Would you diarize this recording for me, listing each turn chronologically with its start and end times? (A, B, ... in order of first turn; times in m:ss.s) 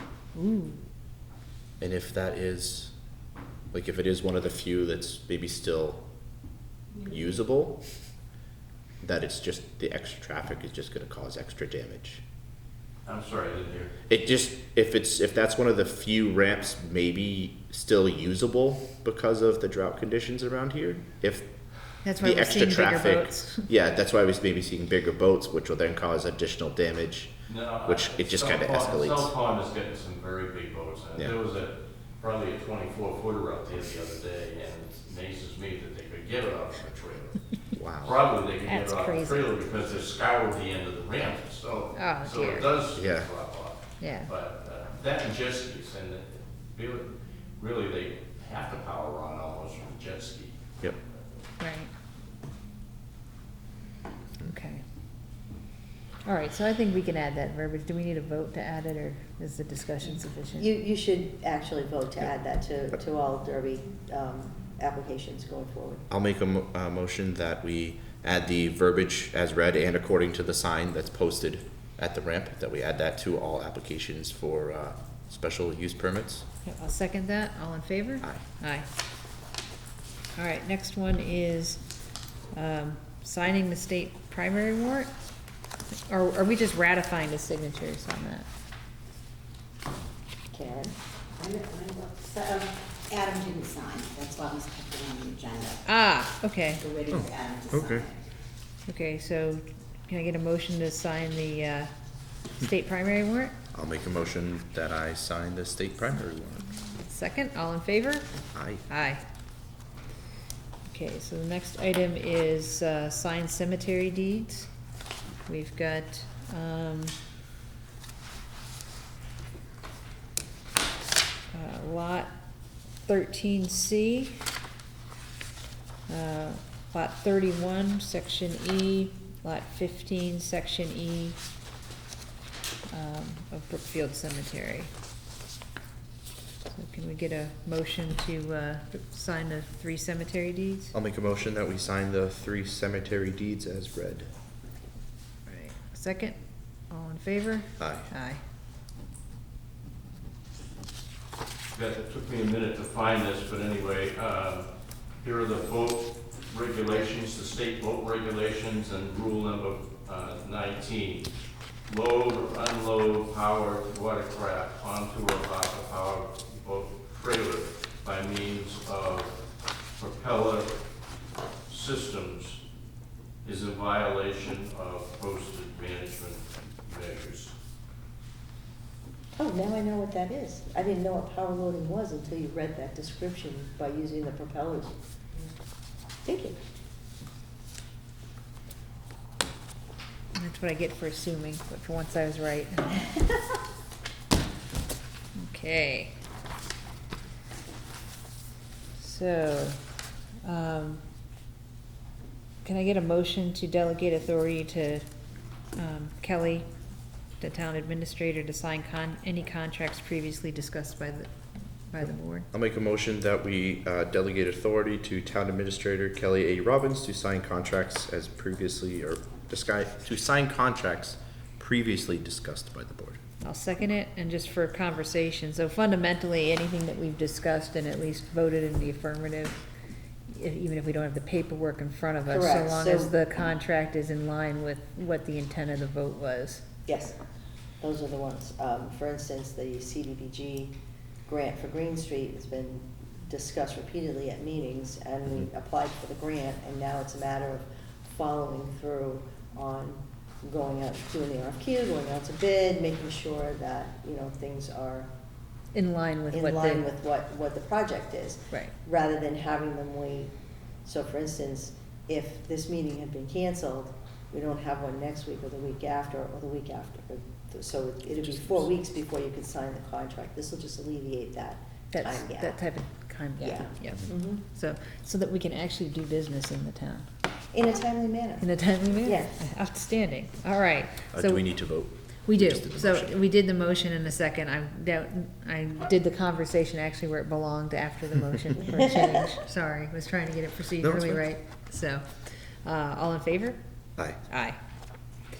0:00.3-0:00.8 A
0:01.8-0:02.9 B
0:03.7-0:06.0 B
0:07.0-0:07.8 B
0:09.0-0:12.2 B
0:13.0-0:13.9 C
0:14.1-0:21.5 B
0:22.0-0:23.7 A
0:22.2-0:27.3 B
0:27.5-0:37.4 C
0:27.8-0:29.3 B
0:37.7-0:38.2 B
0:38.0-0:50.6 C
0:38.6-0:39.5 A
0:41.9-0:42.7 A
0:42.9-0:43.3 B
0:44.0-0:44.3 A
0:51.6-0:51.9 A
0:54.4-0:54.8 A
0:56.2-1:00.7 A
1:00.6-1:06.0 D
1:06.1-1:16.4 B
1:16.6-1:18.9 A
1:20.3-1:21.8 A
1:22.5-1:25.1 A
1:25.9-1:28.5 A
1:30.5-1:30.9 D
1:31.4-1:35.8 E
1:35.8-1:36.9 A
1:36.9-1:38.1 E
1:37.1-1:38.0 B
1:38.9-1:41.9 A
1:42.5-1:43.6 A
1:43.7-1:46.7 B
1:47.0-1:48.3 A
1:48.5-1:48.9 B
1:48.9-1:49.2 A
1:50.9-1:54.7 A
1:55.4-1:57.2 A
2:01.5-2:02.3 A
2:03.0-2:04.5 A
2:06.1-2:11.4 A
2:12.9-2:14.9 A
2:16.7-2:20.9 A
2:20.9-2:24.3 B
2:25.5-2:26.4 A
2:26.9-2:28.4 A
2:27.8-2:28.1 B
2:31.7-2:34.7 C
2:35.2-2:41.3 C
2:41.9-2:49.4 C
2:50.0-2:50.8 C
2:51.7-2:52.6 C
2:53.4-2:57.5 C
2:59.4-3:04.9 D
3:06.2-3:06.6 D
3:10.3-3:13.3 A
3:15.3-3:16.2 A
3:19.0-3:19.8 A
3:20.4-3:21.0 A
3:22.6-3:25.0 A
3:25.7-3:26.7 A
3:27.4-3:31.3 A
3:31.9-3:32.5 A
3:32.5-3:43.2 B
3:43.4-3:49.6 A
3:50.3-3:56.6 A
3:52.3-3:53.1 D
3:56.9-3:57.2 D
3:57.8-4:00.7 D
4:01.3-4:15.1 D
4:15.7-4:16.8 A
4:16.3-4:20.3 D
4:20.8-4:32.6 D
4:31.9-4:37.1 A
4:33.4-4:34.4 D
4:37.5-4:38.5 D
4:38.4-4:41.5 A
4:39.0-4:39.4 D
4:41.1-4:43.2 B
4:42.3-4:53.6 A
4:48.6-4:49.3 D
4:50.8-4:51.2 B
4:54.3-4:54.6 A